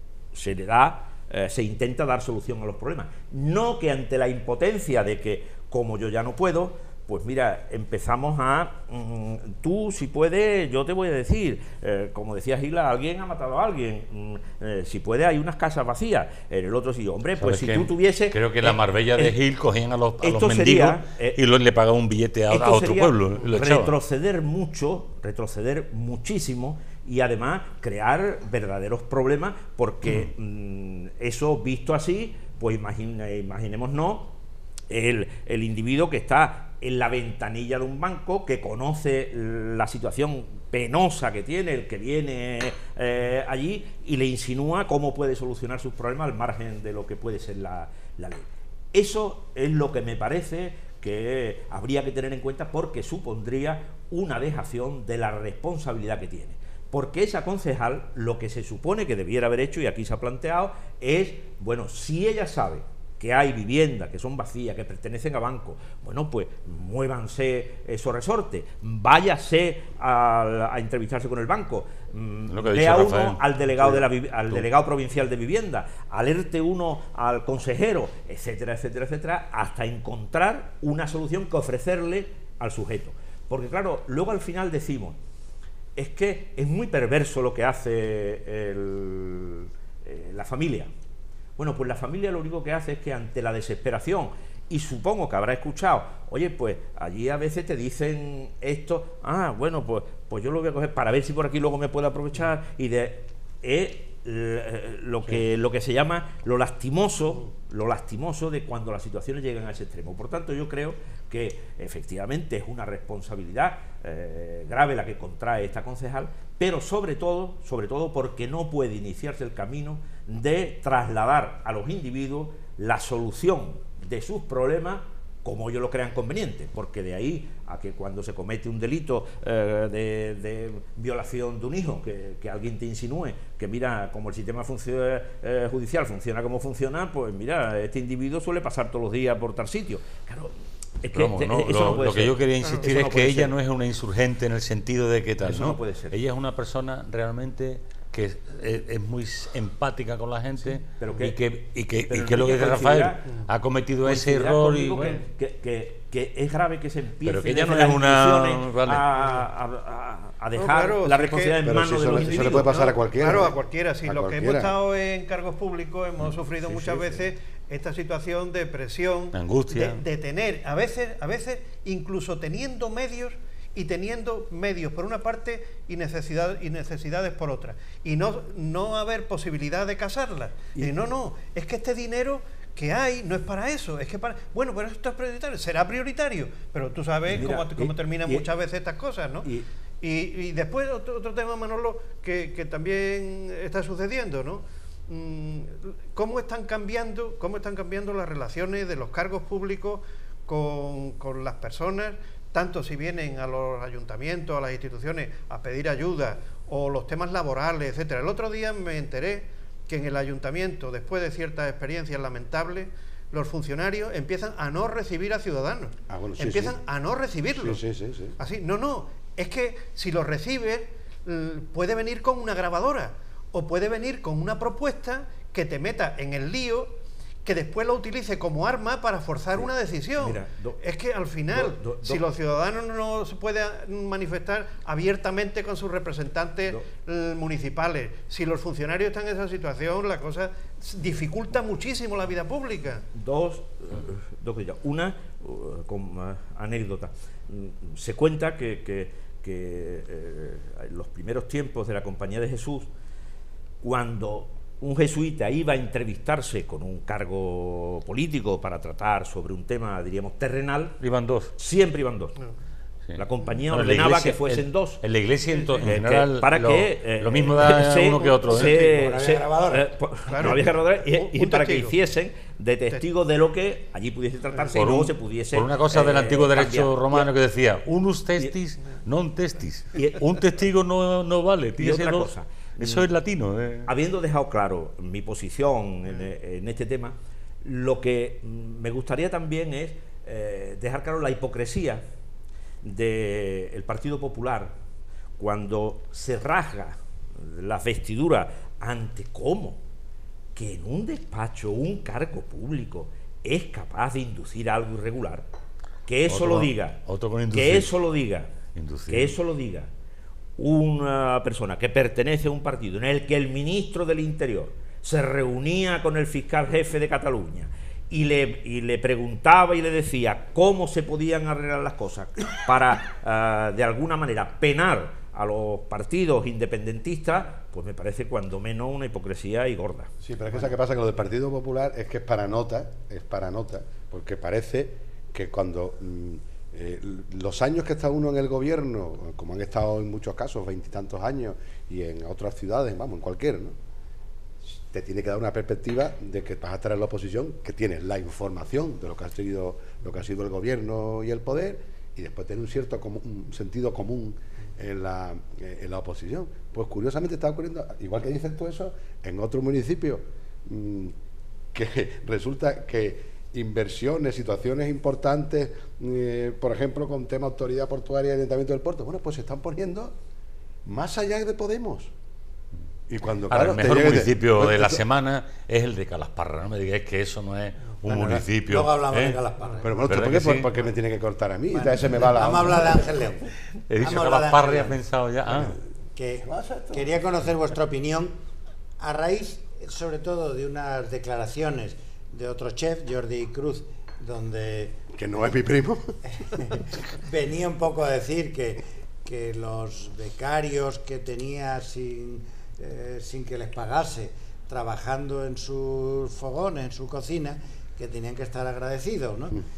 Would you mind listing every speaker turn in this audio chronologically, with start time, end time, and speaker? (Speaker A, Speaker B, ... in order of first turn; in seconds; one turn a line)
Speaker A: 0.3-19.3
Speaker B: 17.4-23.9
Speaker A: 20.2-21.4
Speaker A: 22.5-34.3
Speaker A: 34.9-85.2
Speaker B: 72.5-74.7
Speaker A: 86.0-90.9
Speaker A: 91.6-143.5
Speaker B: 141.1-155.2
Speaker A: 145.4-146.2
Speaker A: 151.0-151.3
Speaker A: 152.1-153.3
Speaker A: 154.0-162.9
Speaker B: 157.2-159.1
Speaker C: 160.5-217.8
Speaker D: 161.6-164.7
Speaker A: 166.6-167.2
Speaker B: 169.3-170.0
Speaker A: 187.3-188.5
Speaker D: 216.1-216.8
Speaker D: 217.5-218.4
Speaker C: 218.4-243.0
Speaker A: 229.6-230.8
Speaker A: 231.5-232.2
Speaker A: 243.1-252.9
Speaker A: 253.8-261.0
Speaker B: 261.0-261.5
Speaker A: 261.6-262.4
Speaker B: 263.1-268.8
Speaker A: 263.2-265.0
Speaker A: 265.8-277.3
Speaker E: 268.4-269.9
Speaker C: 270.3-271.9
Speaker B: 274.7-283.9
Speaker A: 279.9-280.2
Speaker A: 281.8-283.1
Speaker A: 283.9-292.0
Speaker A: 292.8-294.8
Speaker A: 295.4-299.8
Speaker A: 300.5-305.5
Speaker A: 306.1-308.5
Speaker B: 306.3-307.9
Speaker B: 308.7-309.4
Speaker A: 309.1-309.9
Speaker A: 310.6-330.1
Speaker D: 330.2-343.7
Speaker D: 344.6-361.1
Speaker D: 361.7-370.1
Speaker D: 370.8-372.1
Speaker D: 373.1-375.0
Speaker B: 373.5-379.4
Speaker E: 378.1-380.1
Speaker D: 379.8-382.9
Speaker B: 380.1-380.7
Speaker E: 381.7-383.5
Speaker B: 383.9-385.8
Speaker E: 384.0-385.0
Speaker E: 386.1-388.4
Speaker D: 386.4-387.1
Speaker E: 389.0-395.0
Speaker D: 395.1-396.2
Speaker E: 396.3-409.6